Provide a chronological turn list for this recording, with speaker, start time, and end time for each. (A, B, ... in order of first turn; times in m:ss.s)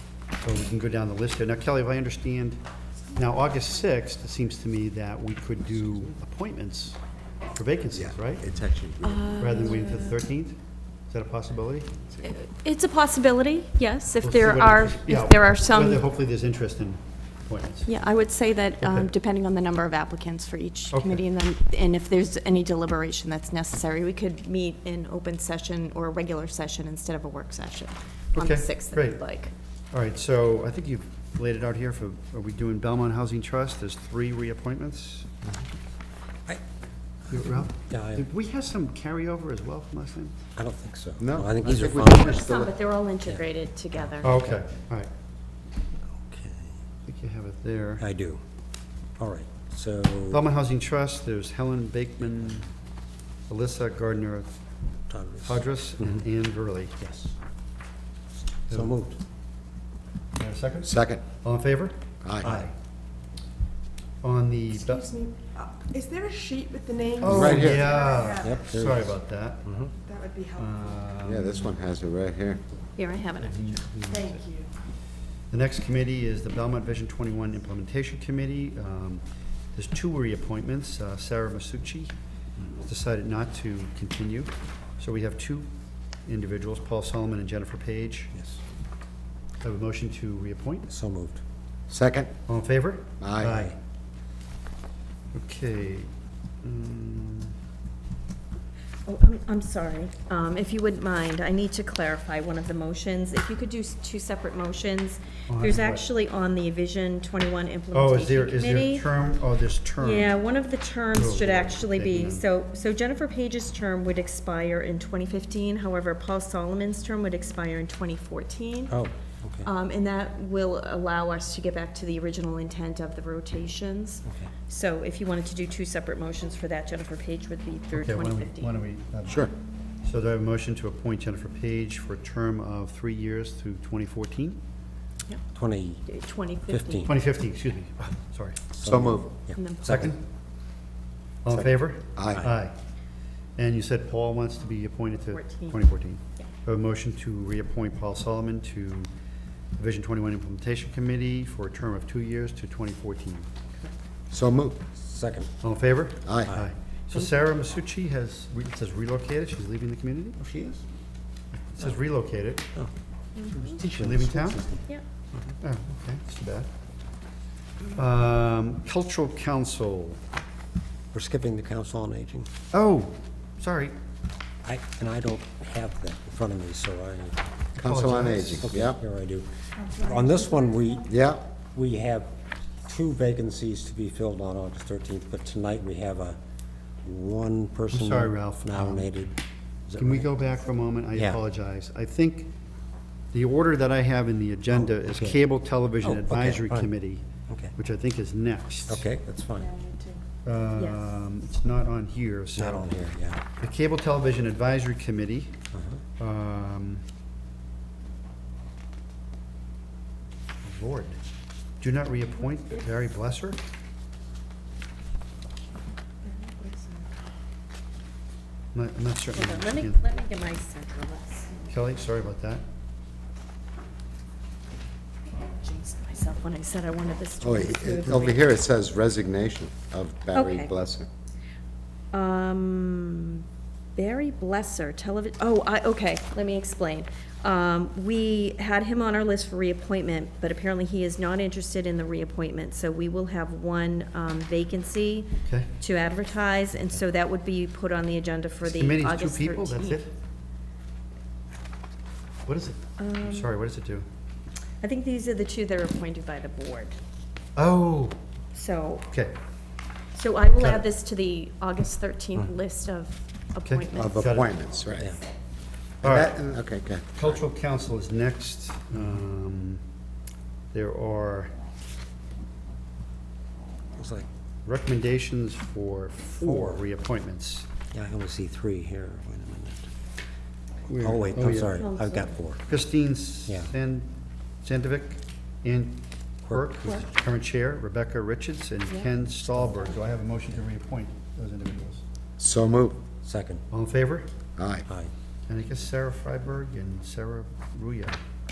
0:00.4-0:02.6 A
0:03.1-0:07.0 A
0:07.5-0:08.4 A
0:07.9-0:09.3 B
0:09.0-0:10.2 C
0:09.4-0:10.6 A
0:11.1-0:11.9 A
0:12.2-0:16.0 C
0:14.2-0:17.9 A
0:17.8-0:29.5 C
0:18.8-0:19.1 A
0:20.9-0:21.2 A
0:28.4-0:29.2 A
0:29.9-0:35.3 A
0:37.3-0:40.3 A
0:37.3-0:38.3 D
0:40.6-0:42.4 D
0:41.2-0:42.8 B
0:42.1-0:44.3 C
0:44.2-0:44.6 D
0:44.2-0:45.1 A
0:46.2-0:46.7 D
0:47.0-0:48.0 A
0:48.0-0:48.4 D
0:49.2-0:50.4 D
0:50.3-0:52.7 A
0:53.5-0:54.6 A
0:55.1-0:55.6 D
0:55.4-0:57.0 A
0:57.0-0:57.3 D
0:58.7-0:59.0 A
0:58.7-0:59.2 D
1:00.4-1:02.7 A
1:00.8-1:01.2 B
1:02.2-1:02.5 B
1:02.4-1:02.7 D
1:04.2-1:05.1 A
1:05.0-1:08.3 E
1:07.2-1:09.7 A
1:07.2-1:07.9 B
1:07.3-1:07.7 D
1:08.3-1:09.1 D
1:09.6-1:09.9 D
1:10.1-1:10.6 E
1:10.6-1:11.7 A
1:11.2-1:12.6 B
1:13.0-1:13.6 C
1:13.4-1:14.4 A
1:15.5-1:19.2 A
1:19.7-1:22.1 A
1:22.8-1:25.7 A
1:26.2-1:28.3 A
1:29.6-1:30.9 A
1:30.9-1:31.4 D
1:31.9-1:32.3 B
1:32.5-1:33.8 A
1:33.2-1:33.6 B
1:35.3-1:36.1 A
1:36.6-1:37.5 A
1:39.0-1:49.0 C
1:45.5-1:46.0 A
1:47.9-1:50.3 A
1:50.0-1:59.0 C
1:51.1-1:52.4 A
1:58.9-1:59.7 D
1:59.6-2:08.8 C
2:07.9-2:09.5 A
2:10.0-2:14.6 A
2:15.5-2:16.0 D
2:16.1-2:17.1 C
2:16.7-2:17.1 D
2:17.0-2:18.6 A
2:18.8-2:20.2 D
2:18.8-2:19.3 B
2:19.6-2:20.1 C
2:19.8-2:20.2 A
2:21.4-2:22.8 A
2:21.5-2:22.4 B
2:23.6-2:29.1 A
2:25.3-2:25.8 C
2:29.8-2:33.5 A
2:34.3-2:34.9 B
2:34.9-2:35.5 D
2:35.6-2:40.4 A
2:40.4-2:40.8 D
2:41.8-2:42.7 A
2:43.4-2:43.7 C
2:43.5-2:45.5 D
2:43.6-2:44.6 A
2:45.6-2:46.7 A
2:47.9-2:50.2 A
2:51.1-2:52.5 D
2:52.7-2:53.9 A
2:54.6-2:57.4 D
2:57.8-2:58.7 A
2:57.8-2:59.0 B
2:58.6-3:01.1 D
3:01.1-3:01.4 B
3:01.7-3:02.3 D
3:02.8-3:06.4 D
3:07.0-3:09.4 D
3:07.9-3:09.2 A
3:09.9-3:10.3 D
3:10.0-3:12.5 A
3:11.1-3:11.4 D
3:13.3-3:17.2 A
3:14.8-3:15.4 D
3:16.0-3:16.9 D
3:17.8-3:19.1 A
3:18.9-3:19.8 D
3:20.4-3:22.9 A
3:20.8-3:21.1 C
3:22.6-3:23.4 D
3:23.6-3:25.6 A
3:25.7-3:26.0 D
3:26.2-3:27.0 A
3:30.6-3:31.2 A
3:31.8-3:33.6 A
3:36.2-3:37.1 C
3:38.7-3:40.0 A
3:39.3-3:41.6 C
3:41.7-3:42.6 A
3:45.4-3:48.4 C
3:47.4-3:51.1 B
3:50.3-3:50.7 C
3:52.1-3:53.4 C
3:54.0-4:10.0 C
4:05.5-4:05.7 A
4:08.6-4:10.1 A
4:12.5-4:14.1 A
4:13.0-4:13.5 C
4:14.8-4:17.0 C
4:17.6-4:18.1 A
4:18.5-4:19.1 C
4:19.1-4:19.4 A
4:20.1-4:24.3 C
4:23.6-4:24.6 A
4:23.9-4:25.1 B
4:24.9-4:25.2 D
4:26.0-4:26.4 A
4:26.0-4:27.1 B
4:27.1-4:29.8 A
4:28.9-4:29.2 D
4:30.7-4:31.5 A
4:34.0-4:34.3 D
4:34.6-4:37.7 A
4:36.4-4:36.8 D
4:37.9-4:39.9 D
4:40.8-4:41.8 A
4:41.0-4:42.6 D
4:41.7-4:42.4 C
4:42.7-4:44.1 A
4:44.6-4:52.0 A
4:46.4-4:47.0 D
4:49.4-4:50.0 D
4:52.4-4:53.0 B
4:53.2-4:53.6 D
4:53.7-4:54.3 A
4:54.6-4:54.9 B
4:55.5-4:58.2 A